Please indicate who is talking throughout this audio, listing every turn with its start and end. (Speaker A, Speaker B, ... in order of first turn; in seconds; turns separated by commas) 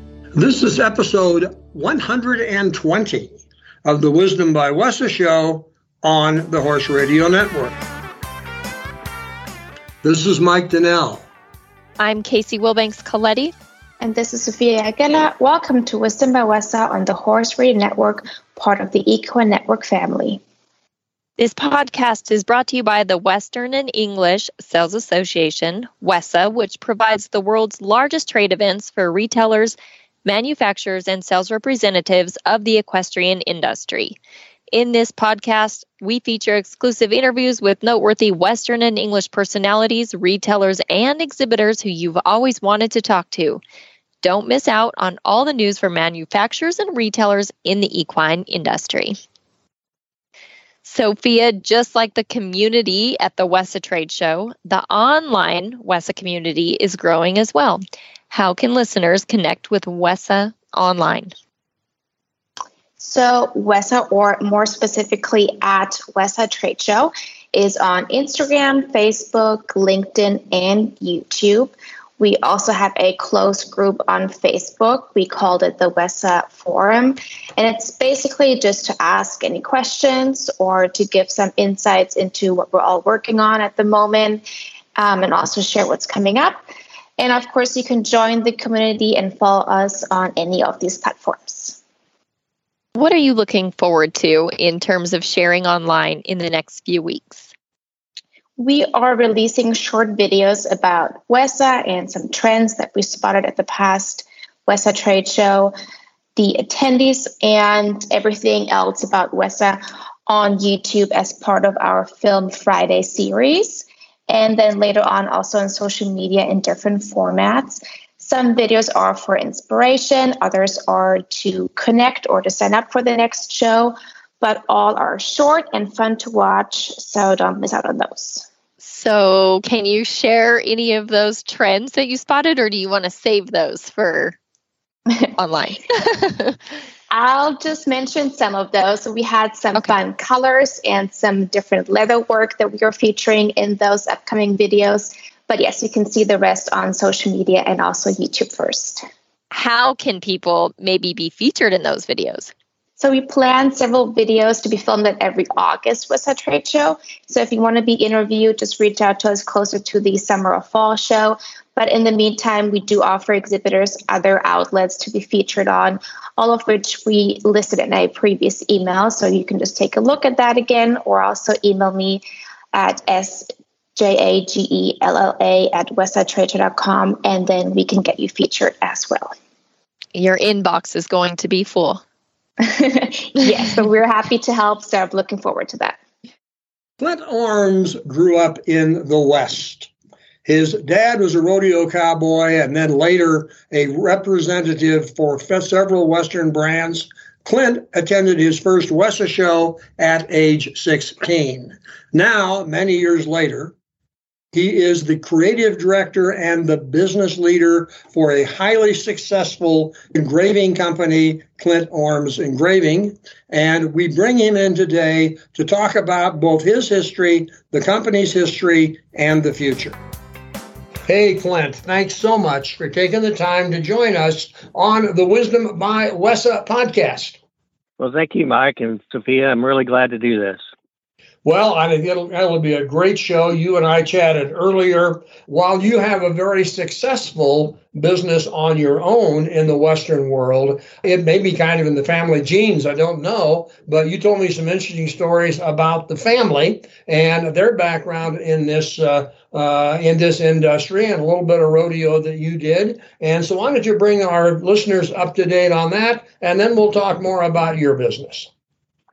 Speaker A: 0.3-7.8, Speaker A: 10.0-11.2, Speaker B: 12.0-13.5, Speaker C: 14.0-20.4, Speaker B: 21.4-34.1, Speaker B: 34.7-43.6, Speaker B: 44.2-49.2, Speaker B: 50.8-61.3, Speaker C: 63.0-84.4, Speaker C: 85.0-86.6, Speaker C: 87.2-91.8, Speaker B: 92.9-97.5, Speaker C: 98.6-105.7, Speaker C: 106.3-128.5, Speaker B: 128.8-134.3, Speaker B: 135.3-136.6, Speaker C: 137.1-149.0, Speaker B: 149.5-152.5, Speaker C: 153.0-172.2, Speaker C: 172.7-179.3, Speaker B: 180.1-182.0, Speaker C: 182.6-186.0, Speaker A: 187.0-189.9, Speaker A: 190.4-203.7, Speaker A: 204.5-219.9, Speaker A: 221.1-227.4, Speaker D: 228.0-230.6, Speaker A: 231.4-258.5